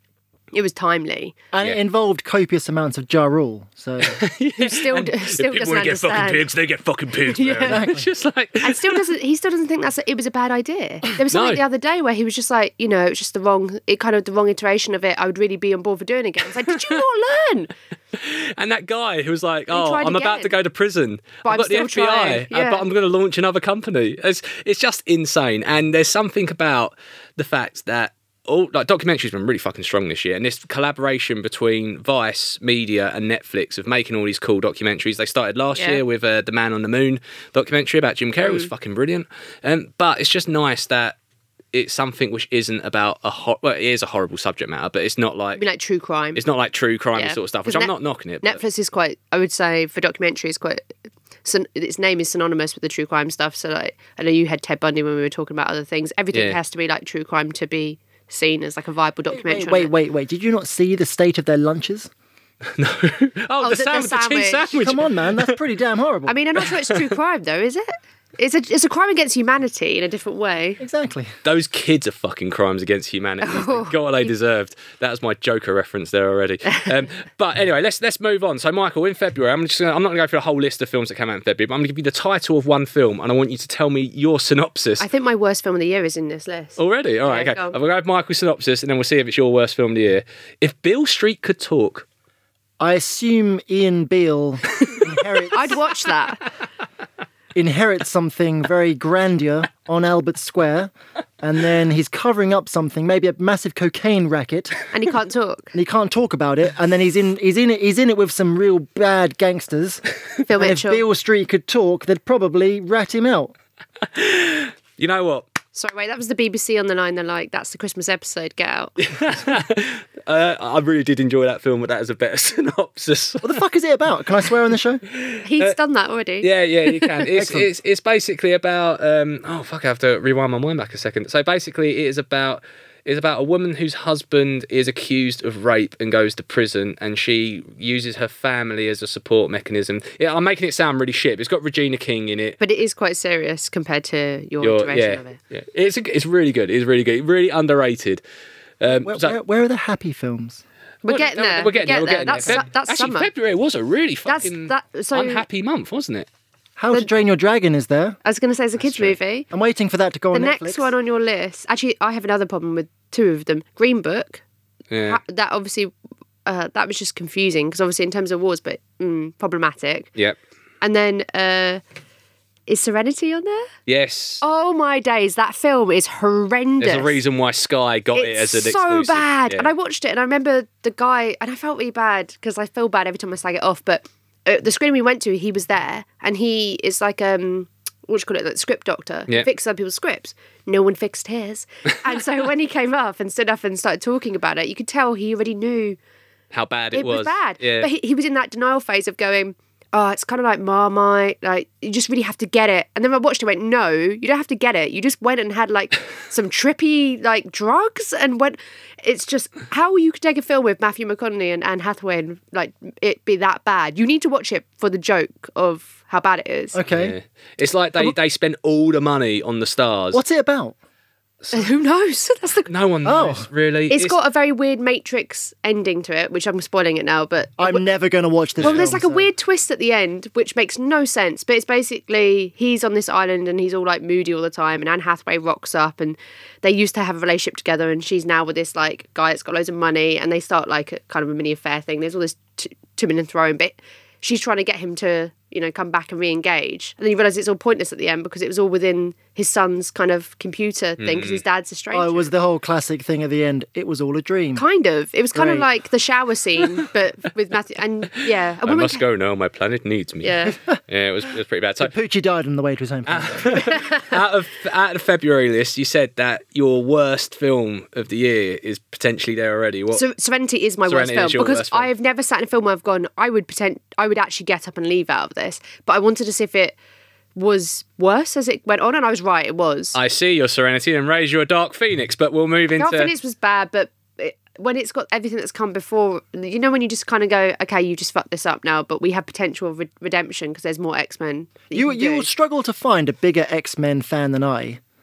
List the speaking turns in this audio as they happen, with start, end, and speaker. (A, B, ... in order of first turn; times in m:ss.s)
0:00.5-0:01.4 A
0:01.5-0:04.2 B
0:04.0-0:09.1 C
0:04.6-0:06.5 A
0:07.3-0:07.9 A
0:07.7-0:08.1 B
0:08.6-0:17.7 A
0:11.2-0:11.6 C
0:16.6-0:16.9 C
0:18.2-0:41.2 C
0:19.7-0:20.5 A
0:21.4-0:22.8 A
0:35.8-0:36.0 A
0:38.4-0:38.7 A
0:41.7-0:45.6 C
0:45.6-0:46.4 A
0:46.4-0:48.6 C
0:47.2-0:50.9 A
0:51.4-0:59.9 A
0:56.3-0:56.6 C
0:59.3-1:02.1 B
1:02.8-1:05.6 C
1:03.6-1:04.8 A
1:04.7-1:06.3 B
1:06.3-1:10.8 A
1:10.8-1:11.3 B
1:11.4-1:25.0 C
1:13.4-1:14.0 A
1:25.0-1:27.8 A
1:26.8-1:32.0 C
1:32.8-1:35.8 B
1:35.5-1:36.4 A
1:37.6-1:44.8 B
1:44.9-1:45.7 A
1:45.7-1:50.0 B
1:50.5-1:51.0 A
1:50.5-1:53.5 B
1:54.1-1:55.5 C
1:55.8-1:58.9 A
1:59.0-2:03.6 C
2:03.4-2:05.0 B
2:05.1-2:05.8 C
2:05.4-2:06.5 A
2:06.4-2:22.6 C
2:07.3-2:07.7 B
2:22.6-2:25.4 A
2:24.6-2:28.2 C
2:28.8-2:29.4 C
2:29.0-2:30.6 B
2:31.0-2:33.3 A
2:31.0-2:36.3 C
2:34.3-2:35.4 A
2:36.8-2:38.2 B
2:38.2-2:39.5 A
2:39.5-2:40.9 B
2:40.3-2:44.4 A
2:44.9-2:45.2 C
2:45.1-2:45.9 A
2:46.5-2:50.1 A
2:50.8-2:51.8 A
2:52.7-2:53.7 A
2:53.9-2:54.4 C
2:54.4-2:57.2 A
2:56.8-2:59.7 C
2:58.2-3:16.0 A
3:16.5-3:17.9 C
3:16.9-3:36.8 A
3:36.7-3:37.1 B
3:36.9-3:40.2 C
3:40.1-3:40.8 B
3:41.5-3:42.7 A
3:42.7-3:44.2 C
3:43.0-3:43.5 B
3:43.9-3:47.8 A
3:47.6-3:49.3 B
3:48.6-4:12.2 A
4:11.0-4:11.4 C
4:11.9-4:14.6 B
4:14.6-4:19.0 A
4:15.3-4:15.7 B
4:18.6-4:21.9 C
4:20.2-4:20.6 A
4:21.8-4:23.6 B
4:23.1-4:30.0 C
4:23.5-4:24.2 A
4:29.9-4:36.8 A
4:30.9-4:31.9 C
4:37.4-4:40.0 A
4:40.0-4:43.1 C
4:42.8-4:52.3 A
4:51.7-4:54.8 B